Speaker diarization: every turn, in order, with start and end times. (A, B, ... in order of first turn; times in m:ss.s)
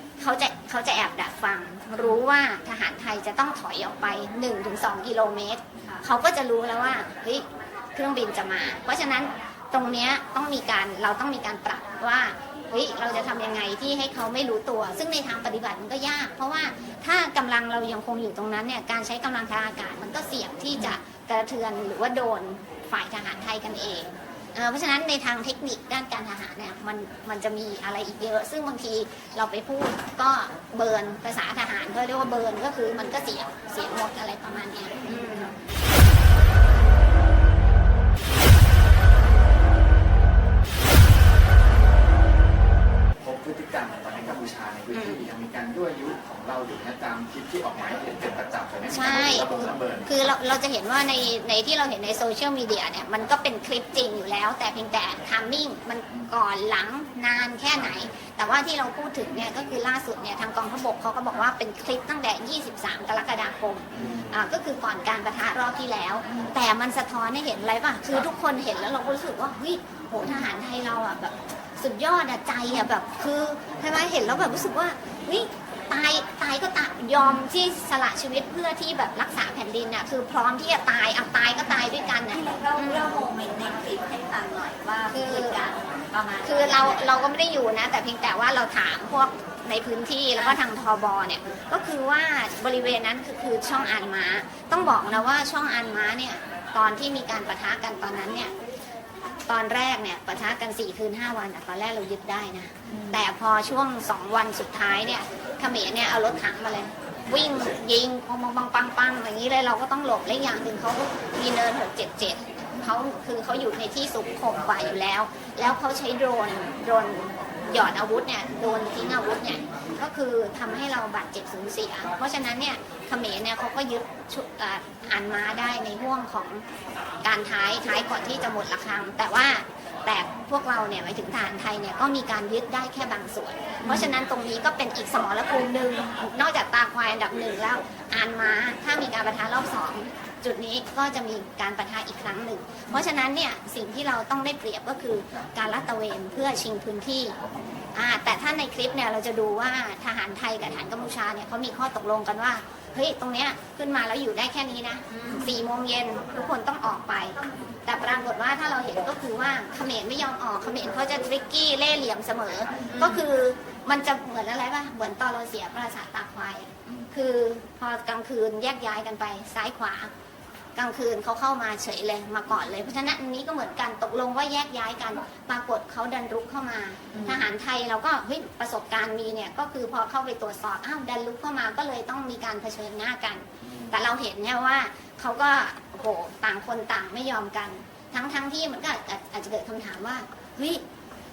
0:00.2-0:35.5 A
0:43.2-0:50.1 B
0:44.9-0:45.2 A
0:48.9-1:23.1 A
1:04.0-1:04.3 B
1:22.3-1:27.2 C
1:25.1-1:25.6 A
1:26.4-1:38.5 A
1:39.5-2:06.6 A
1:42.9-1:43.2 C
2:07.2-2:27.4 A
2:13.8-2:14.1 C
2:27.9-2:50.1 A
2:35.1-2:35.5 C
2:42.9-2:43.2 C
2:50.8-3:10.8 A
3:03.6-3:03.9 B